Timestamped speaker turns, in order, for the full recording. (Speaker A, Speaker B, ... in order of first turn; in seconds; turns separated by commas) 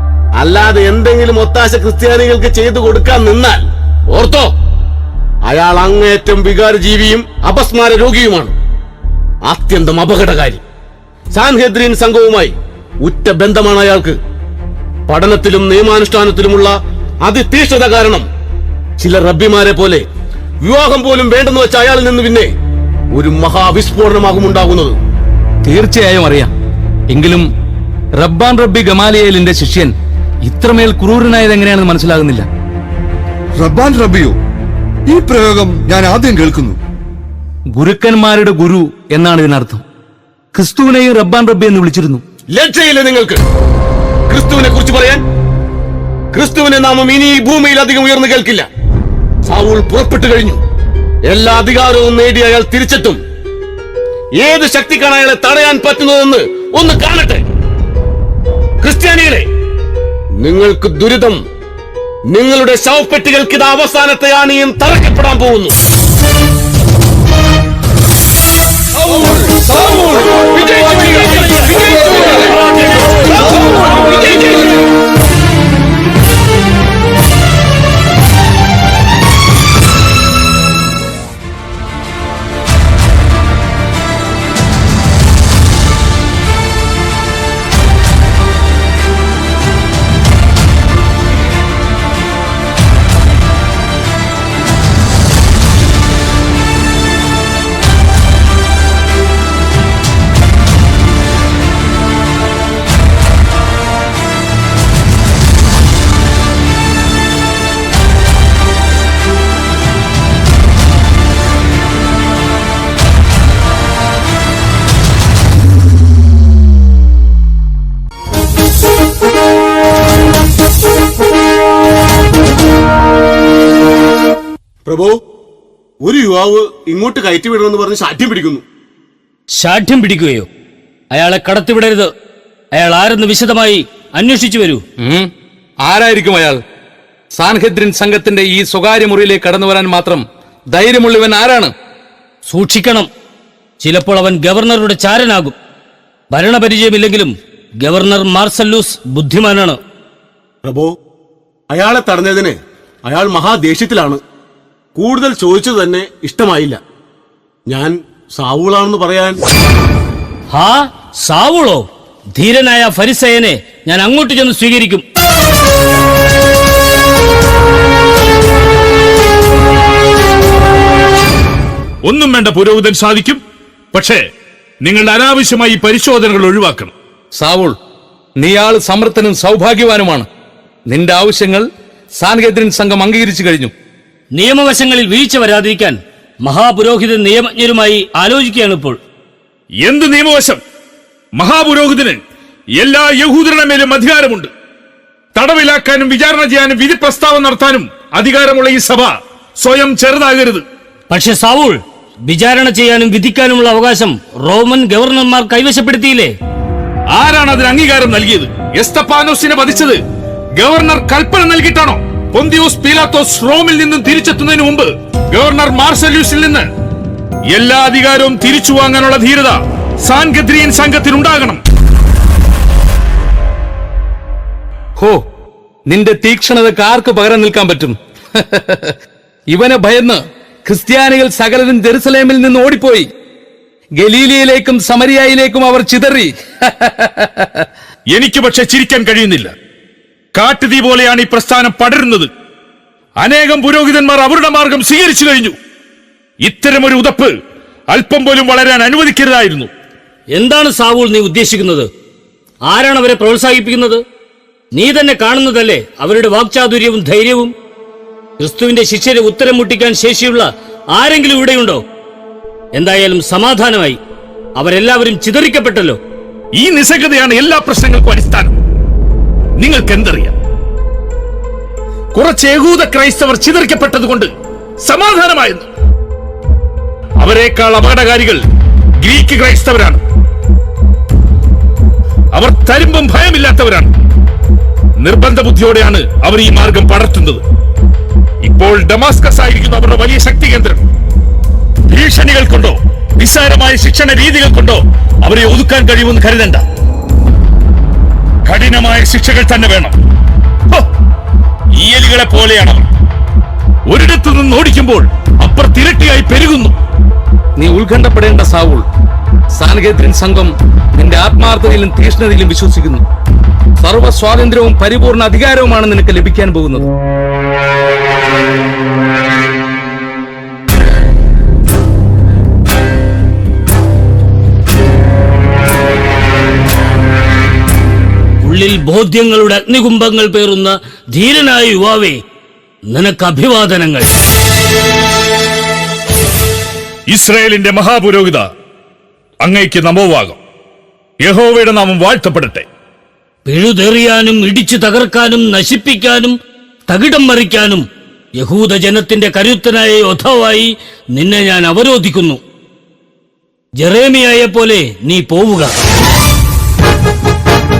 Speaker A: 0.4-4.5, Speaker A: 5.5-8.5, Speaker A: 9.4-10.6, Speaker A: 11.3-14.2, Speaker A: 15.1-18.2, Speaker A: 19.0-20.0, Speaker A: 20.6-22.5, Speaker A: 23.1-25.0, Speaker B: 25.6-26.5, Speaker B: 27.1-27.5, Speaker B: 28.2-29.9, Speaker B: 30.5-32.5, Speaker C: 33.6-34.4, Speaker C: 35.1-36.8, Speaker B: 37.8-39.8, Speaker B: 40.5-42.2, Speaker A: 42.5-43.4, Speaker A: 44.3-45.2, Speaker A: 46.3-48.7, Speaker A: 49.5-50.6, Speaker A: 51.3-53.2, Speaker A: 54.4-57.5, Speaker A: 58.8-59.5, Speaker A: 60.4-61.4, Speaker A: 62.3-65.7, Speaker A: 70.3-72.4, Speaker A: 73.0-74.7, Speaker A: 124.9-125.1, Speaker A: 126.0-128.6, Speaker D: 129.6-130.5, Speaker D: 131.1-132.1, Speaker D: 132.7-134.8, Speaker B: 135.0-135.3, Speaker B: 135.8-136.6, Speaker B: 137.3-141.7, Speaker D: 142.5-143.1, Speaker D: 143.8-145.6, Speaker D: 146.3-149.8, Speaker A: 151.7-152.5, Speaker A: 153.1-154.2, Speaker A: 155.0-156.8, Speaker A: 157.7-159.4, Speaker D: 160.5-161.8, Speaker D: 162.3-165.0, Speaker E: 172.1-173.4, Speaker E: 173.9-174.2, Speaker E: 174.8-176.9, Speaker B: 177.3-177.8, Speaker B: 178.4-180.3, Speaker B: 180.9-181.7, Speaker B: 182.2-183.7, Speaker D: 184.3-189.0, Speaker E: 189.8-190.6, Speaker E: 191.4-192.2, Speaker E: 192.8-194.5, Speaker E: 195.3-200.6, Speaker D: 201.1-206.3, Speaker E: 207.1-210.0, Speaker E: 210.6-216.7, Speaker E: 217.5-221.6, Speaker B: 225.9-228.9, Speaker B: 229.5-233.1, Speaker B: 234.0-237.7, Speaker E: 238.1-239.5, Speaker E: 240.3-242.3, Speaker E: 243.2-245.5, Speaker E: 246.4-247.3, Speaker E: 247.9-249.7, Speaker D: 250.3-251.9, Speaker D: 252.7-254.0, Speaker D: 254.7-257.5, Speaker D: 258.4-261.8, Speaker D: 262.7-264.0, Speaker D: 264.6-266.0, Speaker E: 266.6-268.5, Speaker E: 269.6-270.3, Speaker E: 272.1-274.3, Speaker E: 274.8-275.7, Speaker E: 277.2-278.4, Speaker E: 279.0-280.0, Speaker E: 282.3-283.9, Speaker E: 285.0-287.4, Speaker E: 288.4-290.8, Speaker E: 291.9-296.6, Speaker E: 298.5-299.9, Speaker E: 301.7-302.8, Speaker E: 303.9-306.7, Speaker B: 307.6-308.8, Speaker B: 309.6-313.0, Speaker B: 313.8-316.9, Speaker D: 328.4-332.2, Speaker D: 332.9-334.1, Speaker E: 337.1-338.4, Speaker E: 339.4-340.4, Speaker E: 341.2-342.6, Speaker D: 343.5-346.4, Speaker D: 346.9-347.8, Speaker D: 348.4-352.4, Speaker D: 353.8-355.7